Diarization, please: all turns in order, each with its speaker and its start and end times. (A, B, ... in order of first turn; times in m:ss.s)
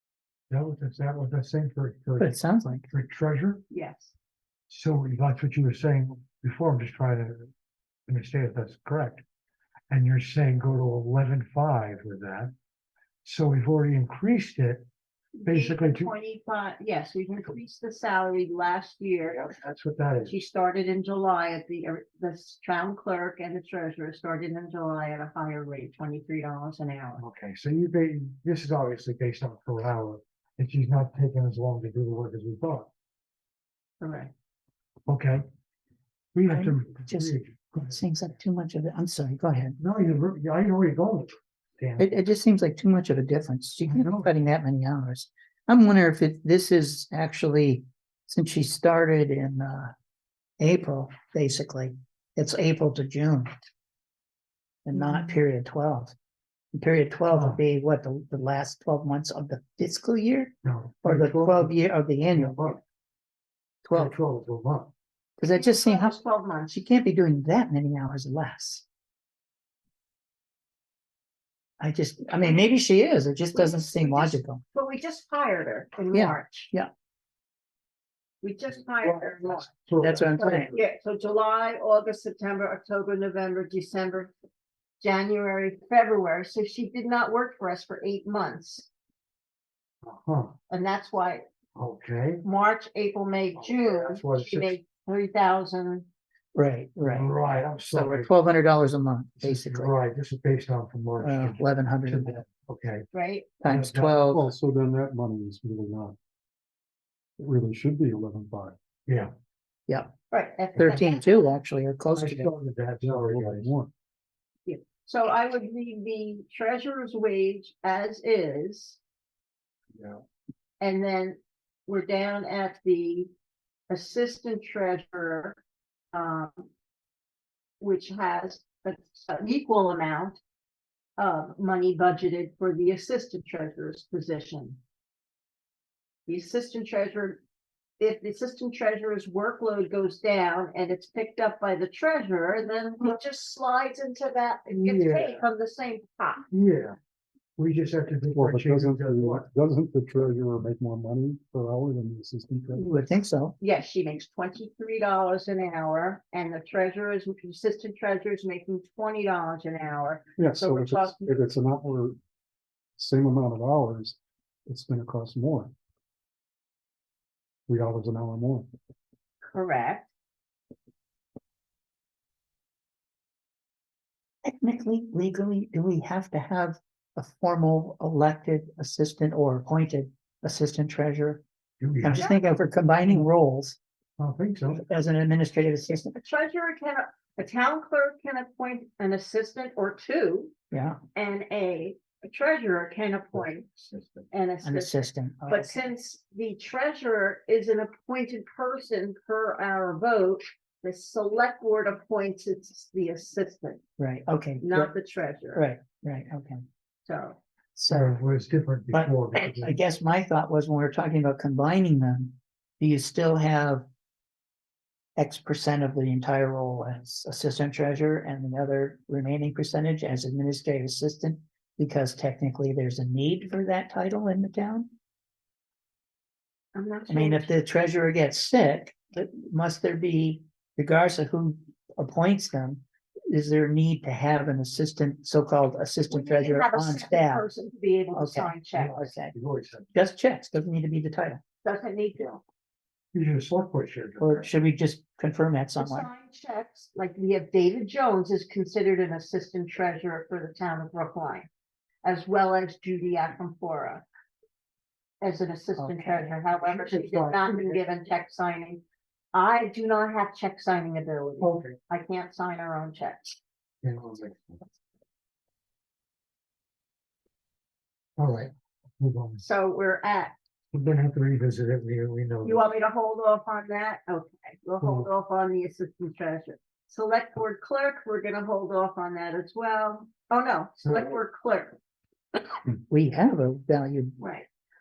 0:00.5-0:02.3 A
0:02.2-0:02.9 B
0:02.9-0:03.6 A
0:03.7-0:04.1 C
0:04.7-0:07.5 A
0:08.1-0:09.2 A
0:09.9-0:12.5 A
0:13.2-0:14.8 A
0:15.4-0:19.4 C
0:15.4-0:16.1 A
0:19.3-0:20.4 A
0:20.3-0:27.2 C
0:27.2-0:32.9 A
0:34.0-0:34.3 C
0:35.1-0:35.4 A
0:36.3-0:38.0 A
0:36.5-0:39.8 B
0:39.8-0:42.0 A
0:42.0-0:49.9 B
0:43.8-0:44.3 A
0:50.6-0:53.5 B
0:54.8-0:56.1 B
0:56.7-1:02.6 B
0:57.3-0:57.6 A
1:00.6-1:01.8 A
1:02.3-1:02.8 A
1:03.8-1:04.1 B
1:03.9-1:04.9 A
1:05.4-1:08.8 B
1:05.4-1:06.8 C
1:11.8-1:14.6 B
1:13.5-1:16.7 C
1:16.1-1:16.9 B
1:18.4-1:19.8 C
1:19.0-1:20.8 A
1:20.0-1:20.7 B
1:20.4-1:24.3 C
1:25.0-1:28.9 C
1:30.0-1:30.6 A
1:30.7-1:31.4 C
1:31.8-1:32.4 A
1:32.4-1:36.1 C
1:33.6-1:34.8 A
1:36.6-1:37.3 B
1:37.0-1:38.3 A
1:37.9-1:39.9 B
1:39.4-1:43.1 A
1:41.2-1:42.4 B
1:43.1-1:43.5 C
1:43.6-1:44.4 A
1:43.6-1:44.4 B
1:44.3-1:46.2 D
1:47.4-1:48.8 D
1:50.3-1:51.5 C
1:50.8-1:52.5 B
1:52.2-1:53.7 A
1:53.0-1:53.9 D
1:54.7-1:59.0 C
1:59.9-2:00.2 A
2:00.8-2:03.3 C
2:03.9-2:05.6 C
2:06.1-2:06.7 C
2:07.8-2:10.4 C
2:11.2-2:14.8 C
2:16.3-2:17.4 C
2:18.0-2:26.4 C
2:24.7-2:25.4 A
2:26.5-2:27.0 A
2:27.6-2:29.5 A
2:28.3-2:33.1 D
2:32.7-2:33.6 B
2:33.6-2:41.4 C
2:40.4-2:42.2 D
2:43.0-2:45.7 D
2:47.7-2:48.7 D
2:49.4-2:50.1 C
2:54.4-3:01.4 B
3:01.8-3:02.3 A
3:02.0-3:03.8 B
3:02.1-3:02.4 C
3:04.2-3:04.8 A
3:04.7-3:06.2 B
3:06.2-3:10.5 C
3:10.7-3:11.0 B
3:11.1-3:23.8 C
3:13.8-3:14.3 A
3:14.6-3:15.8 B
3:24.0-3:24.9 B
3:24.6-3:25.6 C
3:25.5-3:26.6 B
3:27.0-3:27.4 C
3:27.8-3:28.1 B
3:27.9-3:29.8 A
3:28.9-3:33.8 B
3:35.2-3:44.9 B
3:46.8-3:47.5 C
3:47.1-3:57.4 B
3:56.1-3:59.1 C
3:58.1-3:59.3 B
3:58.7-3:59.9 A
3:59.9-4:01.4 B
4:01.6-4:02.4 C
4:03.1-4:04.5 A
4:04.2-4:06.1 B
4:05.8-4:11.5 C
4:12.0-4:14.0 C
4:15.2-4:23.4 C
4:15.8-4:16.3 B
4:16.6-4:17.8 A
4:21.4-4:21.8 A
4:23.8-4:24.7 A
4:28.2-4:29.4 A
4:29.4-4:30.3 C
4:30.7-4:32.6 A
4:32.4-4:41.8 C
4:34.8-4:35.1 A
4:40.8-4:41.1 A
4:42.9-4:44.2 B
4:44.2-4:44.5 C